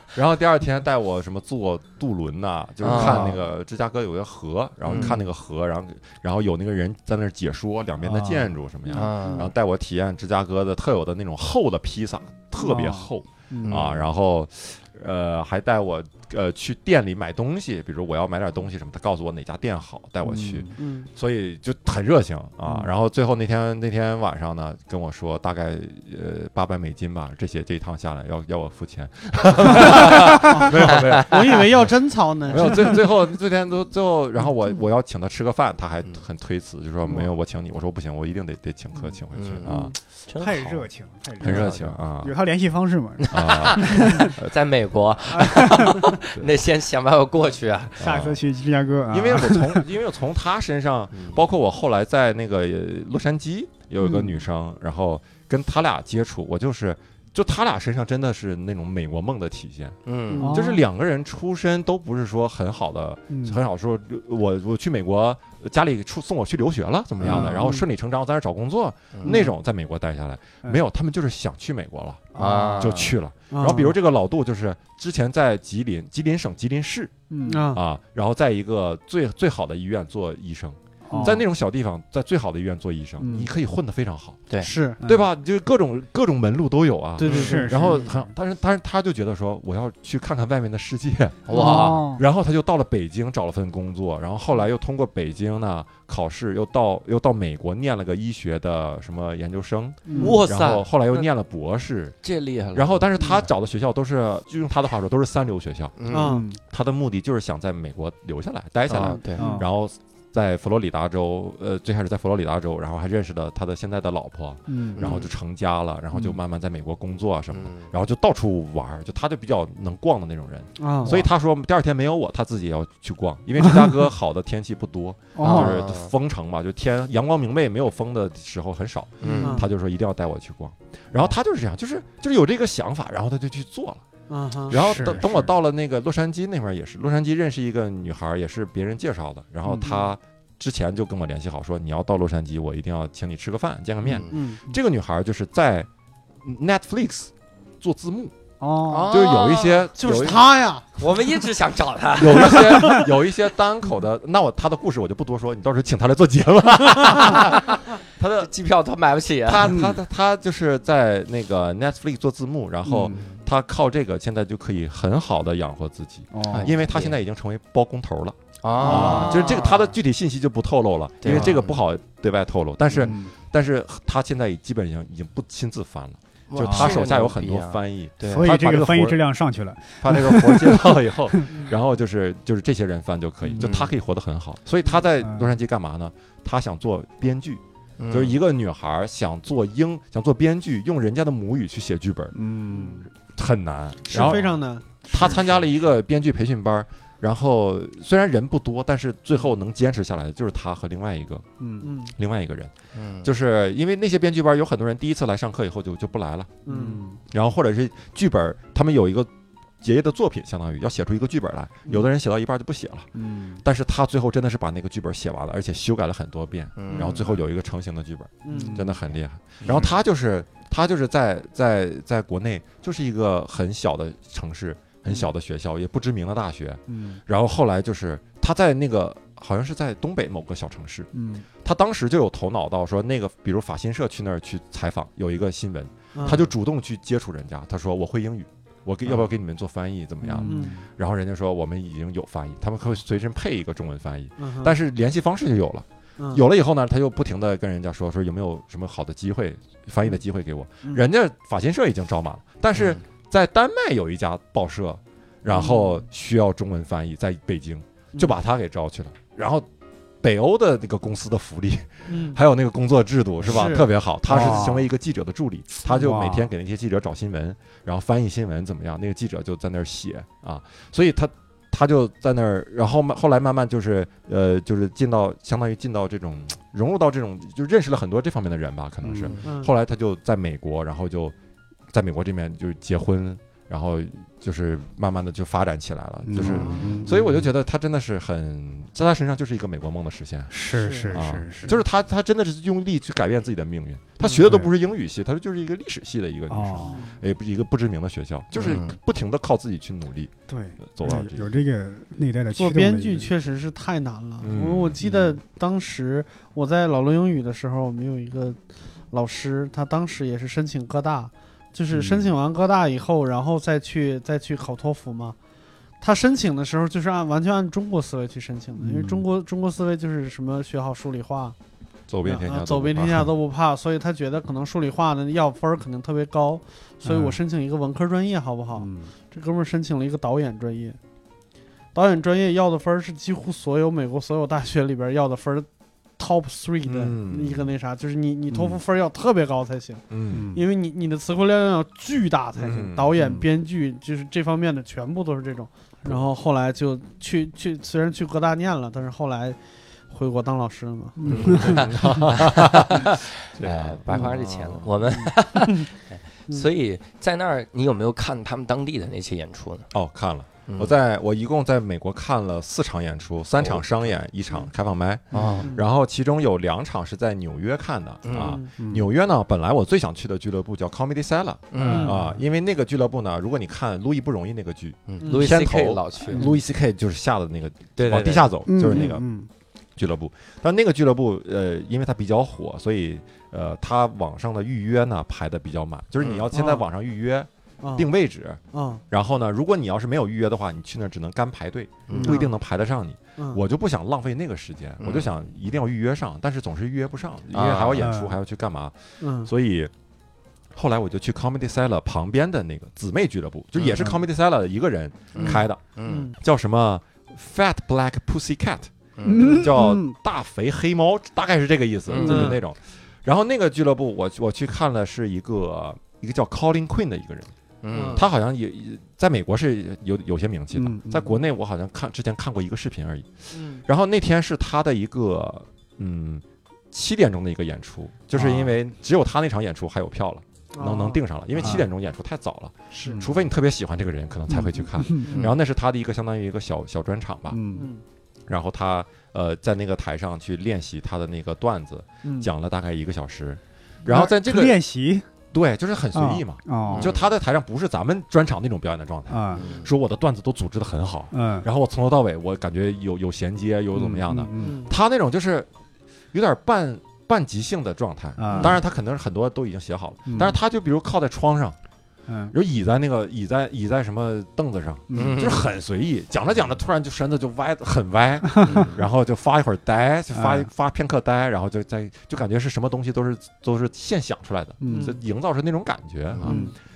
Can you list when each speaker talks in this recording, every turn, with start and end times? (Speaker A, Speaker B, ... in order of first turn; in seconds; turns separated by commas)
Speaker A: 0.1-31.9, Speaker B: 2.8-3.4, Speaker B: 4.8-5.1, Speaker C: 4.9-5.2, Speaker C: 8.0-9.1, Speaker B: 8.9-9.5, Speaker C: 12.6-13.9, Speaker B: 13.6-14.0, Speaker C: 20.2-20.7, Speaker D: 20.8-21.1, Speaker C: 22.6-22.9, Speaker B: 29.9-30.2, Speaker D: 30.6-32.9, Speaker B: 30.9-31.3, Speaker A: 32.5-40.0, Speaker B: 39.3-40.8, Speaker D: 39.6-39.9, Speaker C: 40.4-44.3, Speaker A: 41.4-42.3, Speaker B: 41.4-41.9, Speaker B: 43.2-48.3, Speaker A: 43.3-44.5, Speaker C: 45.3-46.1, Speaker C: 48.0-49.8, Speaker A: 48.0-48.4, Speaker A: 49.1-60.0, Speaker B: 51.1-51.4, Speaker C: 54.0-54.3, Speaker B: 60.0-60.5, Speaker D: 60.3-60.6, Speaker C: 60.4-60.8, Speaker A: 60.5-77.1, Speaker C: 63.3-63.6, Speaker C: 67.2-67.7, Speaker D: 67.3-67.8, Speaker B: 69.1-69.4, Speaker C: 72.3-72.9, Speaker B: 72.3-73.2, Speaker D: 73.5-73.9, Speaker C: 77.3-77.7, Speaker D: 77.4-77.8, Speaker A: 77.7-84.5, Speaker C: 81.1-81.4, Speaker C: 83.2-83.5, Speaker D: 84.6-85.0, Speaker C: 85.0-85.3, Speaker A: 85.0-102.2, Speaker D: 87.2-87.9, Speaker C: 87.2-88.2, Speaker B: 87.3-87.5, Speaker B: 91.5-92.0, Speaker C: 91.5-92.2, Speaker D: 91.5-91.8, Speaker D: 100.1-100.4, Speaker C: 100.1-100.4, Speaker B: 100.2-101.3, Speaker B: 102.2-103.1, Speaker A: 102.7-106.0, Speaker B: 106.0-106.3, Speaker D: 106.1-106.5, Speaker C: 106.1-106.6, Speaker A: 106.5-134.0, Speaker B: 108.9-109.5, Speaker D: 109.0-109.6, Speaker C: 109.4-109.7, Speaker C: 114.7-115.1, Speaker B: 115.0-115.3, Speaker B: 117.5-117.9, Speaker D: 120.8-121.2, Speaker C: 121.0-121.2, Speaker C: 125.3-125.8, Speaker B: 125.4-126.1, Speaker B: 129.2-129.6, Speaker C: 129.3-129.5, Speaker D: 129.4-129.7, Speaker D: 134.3-134.8, Speaker A: 134.7-145.9, Speaker C: 134.7-135.5, Speaker C: 139.7-140.0, Speaker B: 144.0-144.4, Speaker D: 144.3-144.6, Speaker A: 146.4-148.3, Speaker C: 148.6-149.1, Speaker B: 148.9-149.9, Speaker A: 149.1-150.5, Speaker D: 150.0-150.8, Speaker B: 151.0-152.9, Speaker A: 152.2-158.5, Speaker C: 152.7-153.0, Speaker B: 157.3-157.6, Speaker B: 158.4-159.7, Speaker A: 159.4-179.2, Speaker C: 159.7-160.0, Speaker C: 162.8-163.2, Speaker B: 163.1-163.4, Speaker C: 166.3-166.7, Speaker B: 166.5-167.1, Speaker B: 168.6-169.9, Speaker C: 168.8-169.4, Speaker D: 168.9-169.2, Speaker B: 171.2-171.8, Speaker C: 171.2-171.5, Speaker C: 172.9-173.3, Speaker B: 176.5-178.5, Speaker C: 176.6-177.0, Speaker C: 178.2-181.5, Speaker A: 180.0-192.3, Speaker C: 183.4-183.8, Speaker B: 183.6-183.9, Speaker C: 185.2-185.5, Speaker B: 188.0-188.4, Speaker C: 192.3-193.1, Speaker A: 193.3-194.5, Speaker D: 194.1-195.3, Speaker C: 194.1-194.4, Speaker A: 195.1-201.4, Speaker C: 201.6-201.9, Speaker D: 201.8-202.1, Speaker A: 202.0-202.7, Speaker B: 202.9-203.3, Speaker A: 203.2-206.5, Speaker D: 206.7-207.0, Speaker C: 206.7-207.2, Speaker A: 207.3-209.3, Speaker A: 209.8-213.1, Speaker C: 213.1-213.6, Speaker A: 213.6-231.1, Speaker B: 216.8-217.2, Speaker D: 216.9-217.2, Speaker D: 218.4-218.9, Speaker C: 218.5-218.9, Speaker B: 219.6-219.9, Speaker C: 226.9-227.2, Speaker C: 231.1-231.4, Speaker A: 231.6-259.7, Speaker D: 236.1-236.5, Speaker C: 240.2-240.9, Speaker D: 240.4-240.7, Speaker D: 244.4-244.8, Speaker D: 246.2-246.4, Speaker D: 255.5-256.0, Speaker A: 260.2-281.3, Speaker D: 262.1-262.4, Speaker D: 263.4-264.7, Speaker C: 264.3-264.9, Speaker C: 265.9-266.5, Speaker C: 279.0-279.3, Speaker D: 279.4-279.7, Speaker A: 281.9-300.3, Speaker C: 286.2-287.5, Speaker D: 286.4-287.1, Speaker C: 290.5-291.8, Speaker D: 290.7-291.2, Speaker C: 294.2-294.7, Speaker C: 296.5-297.0, Speaker D: 296.8-297.1, Speaker B: 298.5-299.0, Speaker C: 300.5-303.3, Speaker A: 300.8-301.5, Speaker D: 302.5-308.6, Speaker A: 304.4-305.0, Speaker D: 309.1-315.4, Speaker C: 311.9-312.4, Speaker D: 316.0-321.6, Speaker C: 318.8-319.3, Speaker A: 322.1-323.3, Speaker D: 322.2-331.0, Speaker C: 327.0-327.4, Speaker C: 328.8-329.1, Speaker D: 331.9-349.6, Speaker A: 336.8-337.7, Speaker A: 340.1-340.5, Speaker C: 340.3-340.6, Speaker A: 342.6-343.1, Speaker C: 343.1-343.4, Speaker D: 350.1-351.8, Speaker C: 351.2-352.1, Speaker B: 351.3-359.9, Speaker A: 351.3-355.0, Speaker A: 359.9-379.2, Speaker B: 360.7-360.9, Speaker B: 365.3-365.7, Speaker B: 368.2-368.6, Speaker D: 368.4-368.7, Speaker C: 368.8-369.1, Speaker B: 371.7-372.1, Speaker D: 371.8-372.2, Speaker B: 375.1-376.4, Speaker D: 375.2-375.5, Speaker C: 376.3-376.6, Speaker B: 377.9-378.5, Speaker C: 378.6-379.5, Speaker A: 380.0-399.9, Speaker B: 386.2-386.5, Speaker D: 386.5-386.8, Speaker D: 387.8-388.1, Speaker D: 388.7-389.0, Speaker B: 392.1-392.3, Speaker D: 392.2-392.5, Speaker B: 395.0-395.3, Speaker B: 397.5-398.0, Speaker C: 397.9-398.4, Speaker D: 399.2-399.5, Speaker A: 400.7-408.9, Speaker B: 405.3-406.3, Speaker D: 406.0-406.4, Speaker B: 409.1-409.6, Speaker C: 409.2-410.1, Speaker D: 409.4-409.6, Speaker A: 409.5-417.5, Speaker B: 412.1-412.6, Speaker D: 412.2-412.6, Speaker B: 417.8-418.2, Speaker D: 417.9-418.3, Speaker A: 418.1-437.6, Speaker C: 420.7-421.4, Speaker D: 423.5-423.8, Speaker C: 428.3-428.7, Speaker D: 430.7-431.2, Speaker C: 431.6-431.9, Speaker D: 432.9-433.2, Speaker C: 433.0-433.4, Speaker C: 434.5-435.3, Speaker D: 435.2-435.5, Speaker C: 437.5-437.9, Speaker D: 437.7-438.0, Speaker A: 438.5-444.8, Speaker D: 442.2-442.5, Speaker C: 444.1-445.2, Speaker A: 445.5-455.7, Speaker C: 446.1-447.1, Speaker B: 446.9-447.3, Speaker C: 449.3-449.6, Speaker B: 449.5-449.9, Speaker C: 451.3-451.6, Speaker C: 453.9-454.8, Speaker D: 454.6-454.9, Speaker A: 456.3-461.8, Speaker C: 458.4-458.8, Speaker B: 458.5-458.8, Speaker C: 460.3-460.6, Speaker C: 462.3-462.5, Speaker A: 462.5-476.6, Speaker C: 465.1-465.6, Speaker B: 465.1-465.6, Speaker C: 468.5-468.9, Speaker B: 468.6-469.0, Speaker C: 470.3-470.7, Speaker C: 474.8-475.1, Speaker D: 474.9-475.2, Speaker B: 476.3-476.6, Speaker C: 476.4-476.7